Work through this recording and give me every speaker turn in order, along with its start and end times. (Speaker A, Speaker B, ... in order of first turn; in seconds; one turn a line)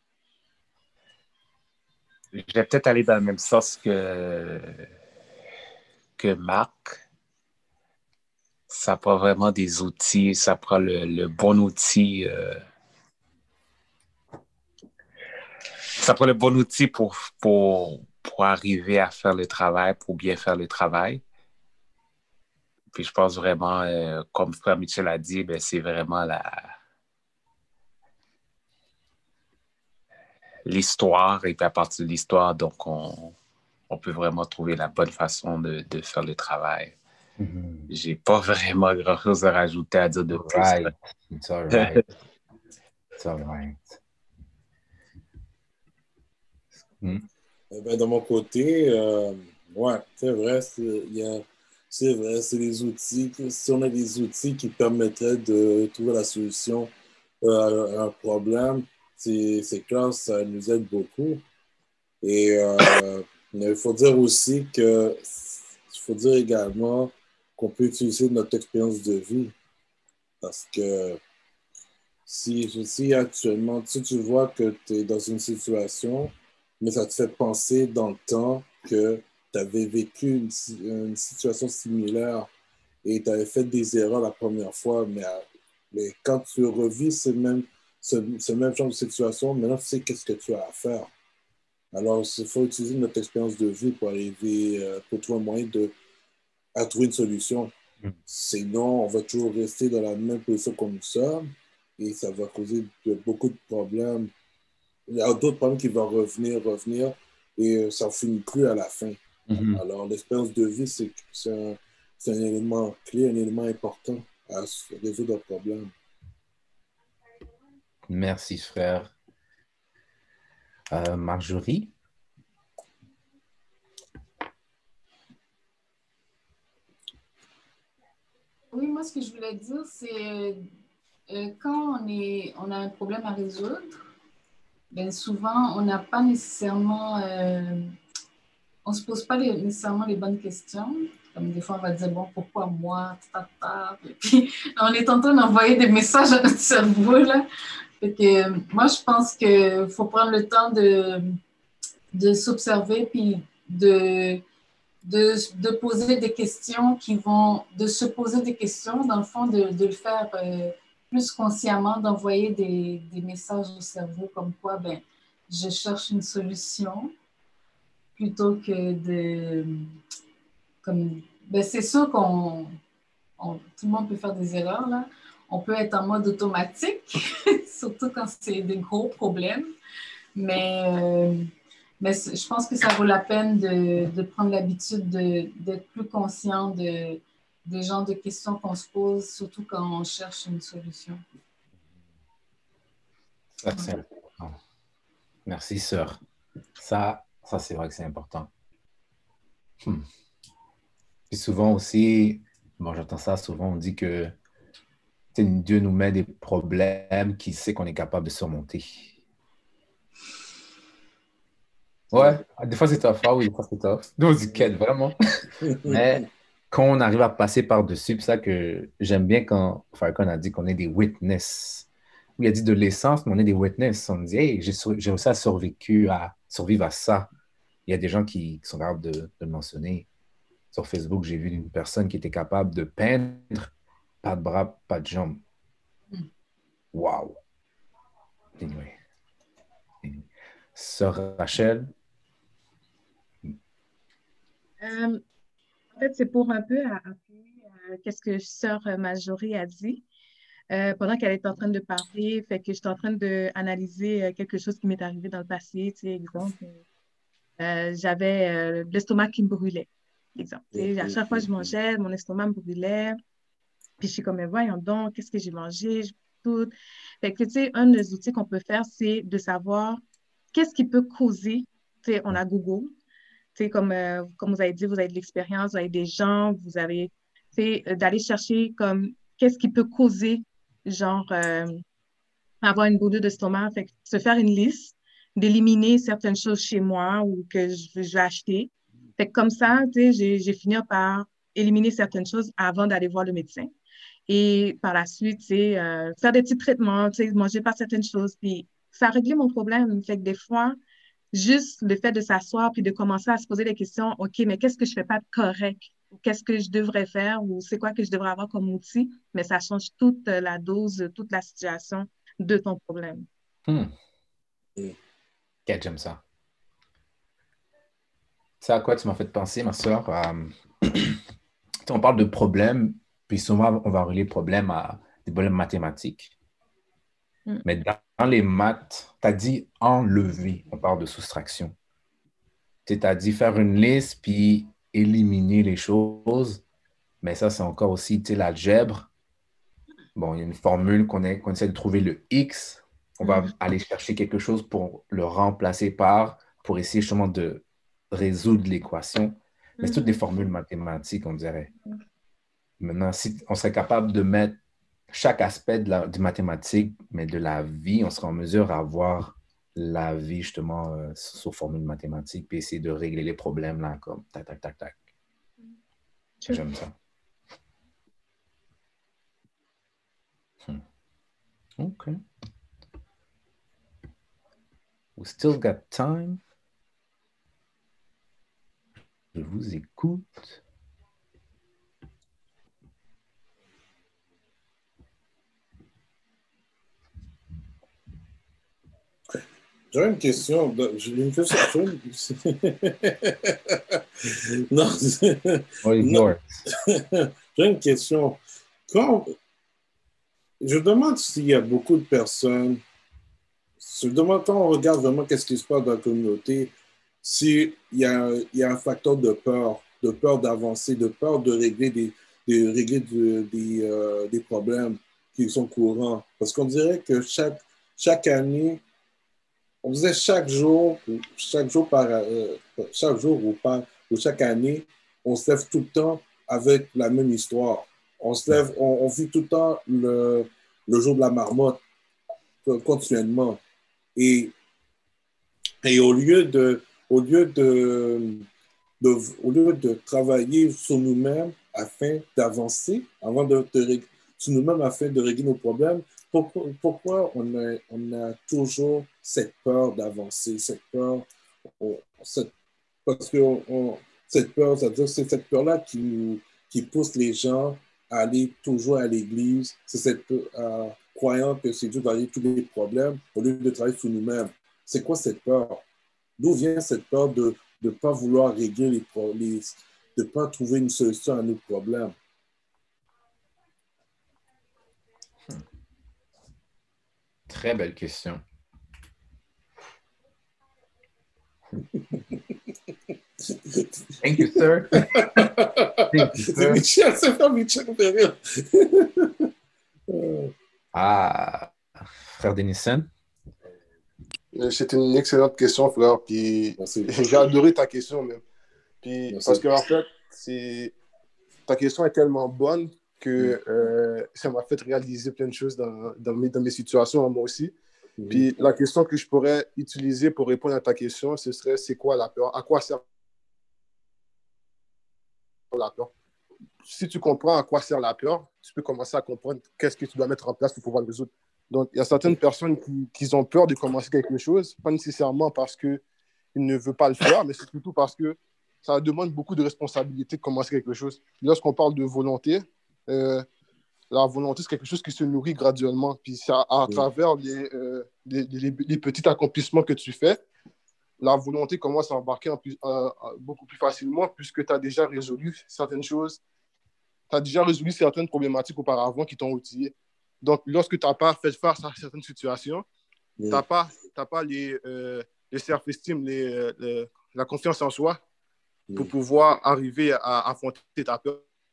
Speaker A: 2.3-4.9
Speaker A: 6.2-7.0
Speaker A: 8.7-12.6
Speaker A: 16.0-21.2
Speaker A: 22.9-26.7
Speaker A: 30.6-33.4
Speaker A: 33.9-37.0
Speaker B: 37.4-37.9
Speaker A: 37.9-40.9
Speaker B: 40.3-42.0
Speaker A: 41.7-42.0
Speaker B: 43.2-43.9
Speaker B: 47.0-47.3
Speaker C: 47.7-61.4
Speaker C: 62.2-69.5
Speaker C: 70.4-71.2
Speaker C: 72.3-82.5
Speaker C: 83.0-91.1
Speaker C: 91.9-95.9
Speaker C: 96.8-97.7
Speaker C: 98.3-104.3
Speaker C: 105.1-109.2
Speaker B: 109.5-109.8
Speaker C: 109.7-115.9
Speaker B: 118.1-119.1
Speaker B: 120.9-121.9
Speaker D: 128.7-130.7
Speaker D: 131.3-134.1
Speaker D: 134.9-137.9
Speaker D: 138.8-147.4
Speaker D: 148.0-151.3
Speaker D: 152.1-154.4
Speaker D: 155.0-167.1
Speaker D: 168.2-169.9
Speaker D: 170.8-172.8
Speaker D: 173.4-179.7
Speaker D: 180.3-181.5
Speaker D: 182.0-191.2
Speaker B: 193.6-194.6
Speaker D: 193.7-193.9
Speaker B: 195.5-196.2
Speaker B: 196.8-198.5
Speaker B: 201.3-204.3
Speaker B: 205.3-209.1
Speaker B: 212.1-215.2
Speaker C: 215.6-216.2
Speaker B: 215.8-227.3
Speaker B: 227.9-230.1
Speaker B: 230.7-233.7
Speaker B: 234.2-235.4
Speaker B: 236.9-237.4
Speaker B: 238.6-238.9
Speaker B: 240.8-241.9
Speaker E: 244.8-245.2
Speaker E: 245.9-250.0
Speaker E: 250.7-256.8
Speaker E: 257.6-263.2
Speaker C: 260.8-261.7
Speaker E: 264.0-270.0
Speaker E: 270.5-272.9
Speaker E: 273.6-281.8
Speaker E: 282.6-293.7
Speaker E: 294.3-300.8
Speaker E: 301.3-313.3
Speaker B: 313.7-313.9
Speaker B: 315.7-316.2
Speaker B: 318.6-321.2
Speaker B: 321.9-326.3
Speaker B: 327.6-331.8
Speaker B: 332.9-336.6
Speaker B: 337.2-339.1
Speaker B: 340.2-351.7
Speaker E: 343.2-343.5
Speaker E: 349.8-350.2
Speaker B: 352.8-354.6
Speaker B: 355.1-365.0
Speaker B: 366.5-366.9
Speaker B: 371.8-372.2
Speaker B: 375.2-376.4
Speaker B: 379.4-380.6
Speaker C: 389.9-394.0
Speaker C: 394.7-399.3
Speaker B: 395.8-396.6
Speaker C: 400.6-402.8
Speaker C: 403.8-418.8
Speaker C: 419.8-431.8
Speaker C: 432.6-433.6
Speaker C: 434.2-434.5
Speaker C: 435.8-438.5
Speaker C: 439.0-451.3
Speaker C: 451.8-452.5
Speaker C: 453.1-465.8
Speaker C: 466.4-472.1
Speaker B: 477.5-478.4
Speaker C: 481.9-482.4
Speaker C: 483.7-489.5
Speaker B: 484.2-485.5
Speaker B: 486.1-486.8
Speaker C: 490.1-490.5
Speaker B: 490.9-491.7
Speaker B: 492.4-493.1
Speaker F: 494.5-498.4
Speaker C: 496.8-497.3
Speaker F: 499.0-500.9
Speaker C: 499.3-499.6
Speaker F: 501.7-507.7
Speaker C: 508.2-508.5
Speaker F: 508.3-513.0
Speaker F: 515.7-516.1
Speaker F: 516.9-526.0
Speaker F: 526.5-533.5
Speaker F: 534.1-540.4
Speaker F: 541.2-546.4
Speaker F: 547.3-552.9
Speaker C: 553.4-553.6
Speaker F: 553.5-558.2
Speaker F: 559.0-561.4